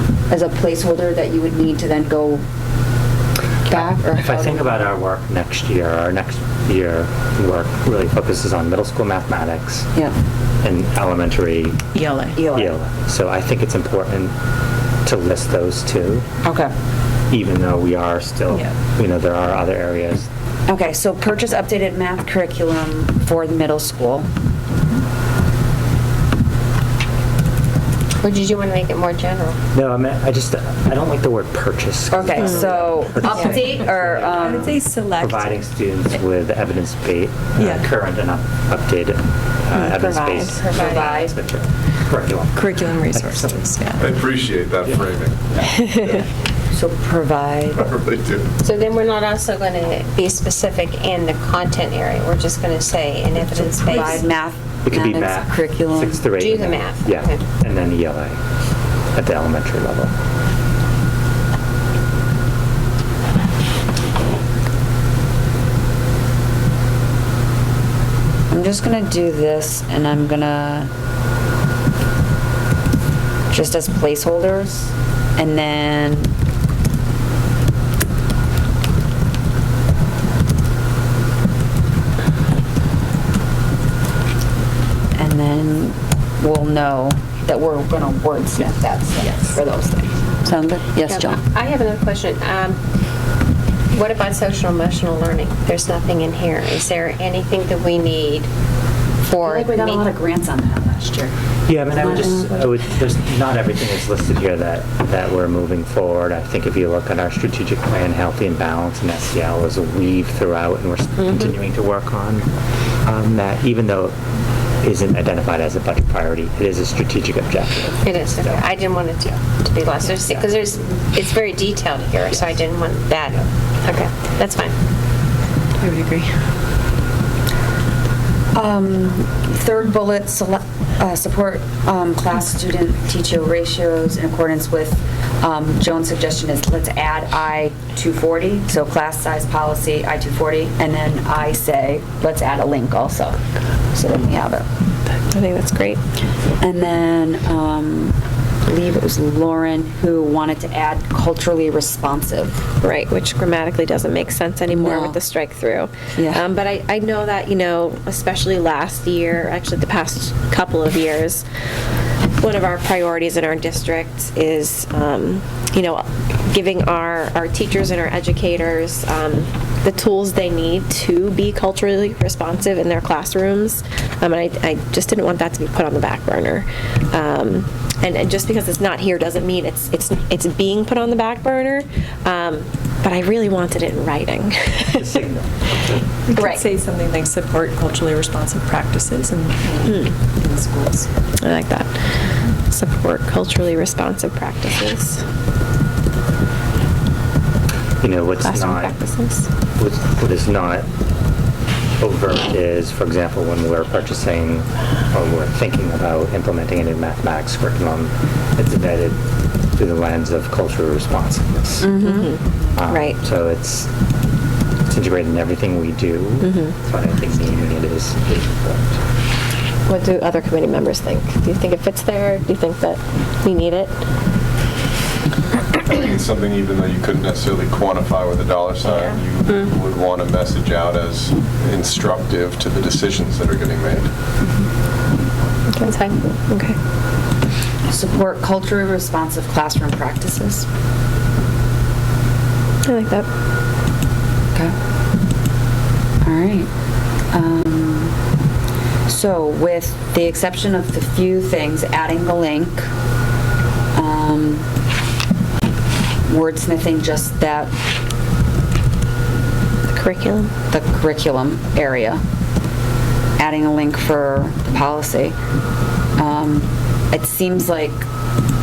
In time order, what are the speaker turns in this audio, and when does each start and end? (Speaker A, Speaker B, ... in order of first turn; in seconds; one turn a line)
Speaker A: 0.3-2.4
Speaker A: 3.7-4.8
Speaker B: 3.7-9.9
Speaker B: 10.6-11.8
Speaker C: 11.9-12.4
Speaker A: 12.3-12.7
Speaker B: 12.5-14.3
Speaker B: 15.1-16.3
Speaker A: 16.4-16.7
Speaker B: 17.3-20.3
Speaker A: 20.7-24.3
Speaker D: 28.2-29.6
Speaker B: 29.7-43.7
Speaker A: 32.1-34.7
Speaker C: 34.4-35.5
Speaker C: 37.6-37.9
Speaker E: 39.7-40.6
Speaker D: 40.6-41.2
Speaker A: 40.7-41.4
Speaker C: 42.5-44.1
Speaker F: 44.0-46.2
Speaker A: 46.7-47.9
Speaker F: 47.8-48.5
Speaker D: 48.6-54.3
Speaker A: 53.5-56.2
Speaker B: 54.9-58.4
Speaker D: 56.4-57.4
Speaker B: 59.1-60.1
Speaker A: 68.5-70.9
Speaker A: 73.5-76.4
Speaker A: 85.2-91.4
Speaker D: 91.1-92.8
Speaker D: 93.9-98.5
Speaker D: 99.3-100.1
Speaker A: 99.4-101.3
Speaker B: 101.7-112.5
Speaker A: 101.9-102.5
Speaker D: 111.2-111.5
Speaker B: 113.0-114.2
Speaker B: 114.8-118.5
Speaker D: 118.0-124.8
Speaker E: 125.8-126.3
Speaker A: 128.5-143.4
Speaker A: 143.9-144.7
Speaker E: 145.3-146.0
Speaker A: 146.6-152.6
Speaker E: 152.8-161.4
Speaker A: 154.7-155.2
Speaker A: 156.2-156.4
Speaker E: 162.4-185.1
Speaker B: 184.9-186.1
Speaker C: 186.3-191.1
Speaker A: 186.3-186.6
Speaker E: 189.8-190.1
Speaker E: 191.4-191.9
Speaker E: 192.7-195.2
Speaker B: 198.0-199.0
Speaker E: 198.4-199.5
Speaker B: 199.8-200.9
Speaker B: 202.0-209.2
Speaker B: 209.8-212.0
Speaker A: 211.8-212.3
Speaker E: 212.0-213.2
Speaker B: 212.8-213.9
Speaker B: 214.9-219.0
Speaker E: 216.4-216.7
Speaker E: 219.9-223.9
Speaker F: 225.9-234.1
Speaker E: 228.8-229.2
Speaker E: 235.7-236.8
Speaker A: 237.9-240.7
Speaker E: 242.8-243.3
Speaker A: 246.2-246.7
Speaker A: 247.3-248.2
Speaker A: 249.1-252.9
Speaker A: 253.9-254.7
Speaker A: 256.3-257.8
Speaker E: 259.9-260.5
Speaker A: 260.7-262.2
Speaker A: 263.4-265.4
Speaker A: 266.2-268.1